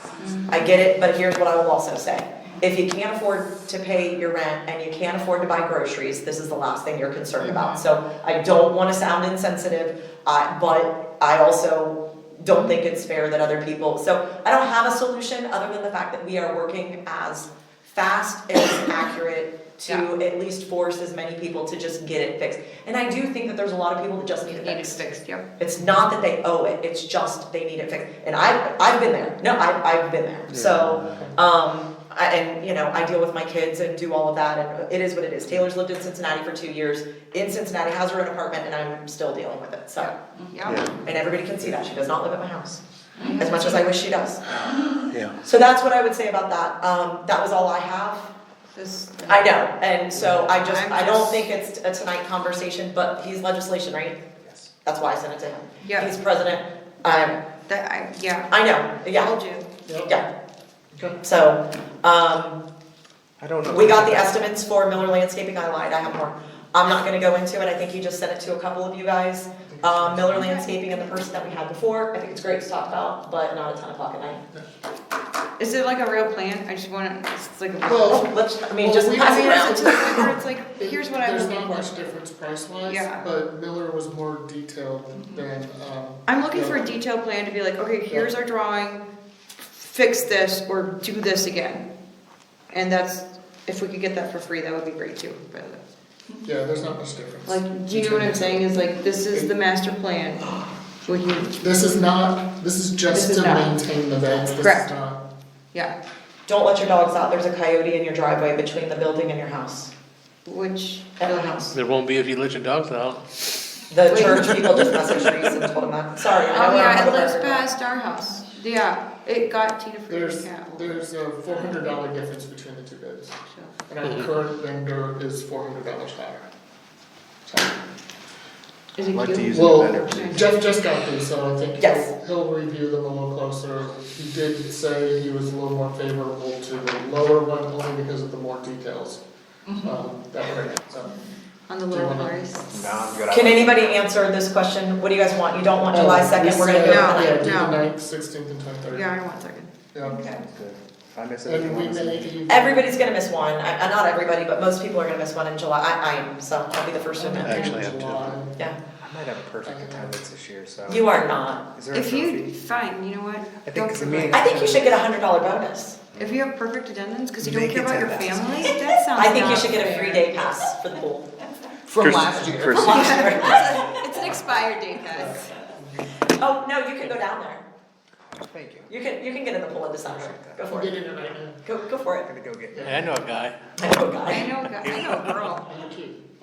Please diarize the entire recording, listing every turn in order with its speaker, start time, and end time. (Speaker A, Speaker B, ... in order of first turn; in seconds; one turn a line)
Speaker A: 0.2-0.7
Speaker B: 0.5-25.0
Speaker A: 24.4-25.4
Speaker B: 25.6-40.1
Speaker C: 30.5-31.2
Speaker A: 40.0-40.9
Speaker C: 40.6-40.9
Speaker B: 41.0-42.8
Speaker A: 43.2-43.9
Speaker B: 43.4-44.4
Speaker C: 44.5-45.4
Speaker B: 45.4-48.3
Speaker A: 48.7-49.5
Speaker B: 49.3-54.2
Speaker A: 50.5-51.5
Speaker D: 54.4-54.7
Speaker B: 54.8-57.4
Speaker A: 55.8-56.1
Speaker A: 57.7-58.5
Speaker B: 58.5-59.3
Speaker A: 59.1-59.7
Speaker E: 59.9-60.1
Speaker E: 60.9-61.2
Speaker B: 61.2-62.6
Speaker D: 63.4-64.4
Speaker B: 63.7-74.4
Speaker E: 69.7-70.5
Speaker A: 70.4-70.7
Speaker A: 75.6-78.2
Speaker E: 77.8-86.9
Speaker B: 78.0-80.1
Speaker A: 79.2-81.7
Speaker A: 82.8-83.2
Speaker A: 86.3-89.1
Speaker A: 89.8-91.9
Speaker A: 92.7-95.8
Speaker E: 96.4-98.7
Speaker A: 97.5-101.7
Speaker E: 101.6-105.2
Speaker A: 103.1-103.7
Speaker A: 104.4-104.9
Speaker B: 106.5-109.9
Speaker A: 110.5-111.7
Speaker B: 111.2-111.7
Speaker F: 111.7-113.2
Speaker B: 113.9-117.6
Speaker A: 114.1-114.6
Speaker A: 116.5-120.9
Speaker E: 120.1-123.3
Speaker A: 123.5-123.7
Speaker E: 123.9-126.5
Speaker E: 127.5-127.8
Speaker A: 128.9-130.7
Speaker D: 129.1-130.5
Speaker E: 129.5-139.2
Speaker B: 131.8-132.1
Speaker A: 139.7-140.0
Speaker E: 139.8-141.2
Speaker A: 141.7-142.9
Speaker E: 141.9-142.4
Speaker D: 142.7-143.9
Speaker B: 143.3-147.5
Speaker E: 145.9-149.1
Speaker A: 146.7-147.8
Speaker A: 148.9-150.4
Speaker E: 149.9-150.2
Speaker D: 150.4-152.4
Speaker E: 151.4-152.9
Speaker B: 152.5-157.8
Speaker E: 157.2-158.6
Speaker C: 157.4-158.3
Speaker D: 159.0-162.6
Speaker E: 159.6-160.2
Speaker B: 160.9-161.6
Speaker A: 161.9-164.8
Speaker D: 163.6-164.9
Speaker B: 164.3-166.0
Speaker A: 166.1-170.3
Speaker D: 167.4-168.7
Speaker B: 169.1-171.3
Speaker E: 171.9-172.8
Speaker C: 172.0-173.0
Speaker A: 172.3-175.5
Speaker B: 172.7-173.8
Speaker E: 175.1-176.2
Speaker B: 176.3-177.6
Speaker D: 178.5-178.9
Speaker B: 178.9-180.9
Speaker E: 180.1-181.6
Speaker D: 180.1-180.6
Speaker B: 181.6-182.3
Speaker D: 182.2-183.1
Speaker E: 182.7-183.1
Speaker F: 182.8-183.6
Speaker B: 183.8-184.5
Speaker A: 184.3-185.7
Speaker F: 184.8-185.3
Speaker E: 185.6-186.2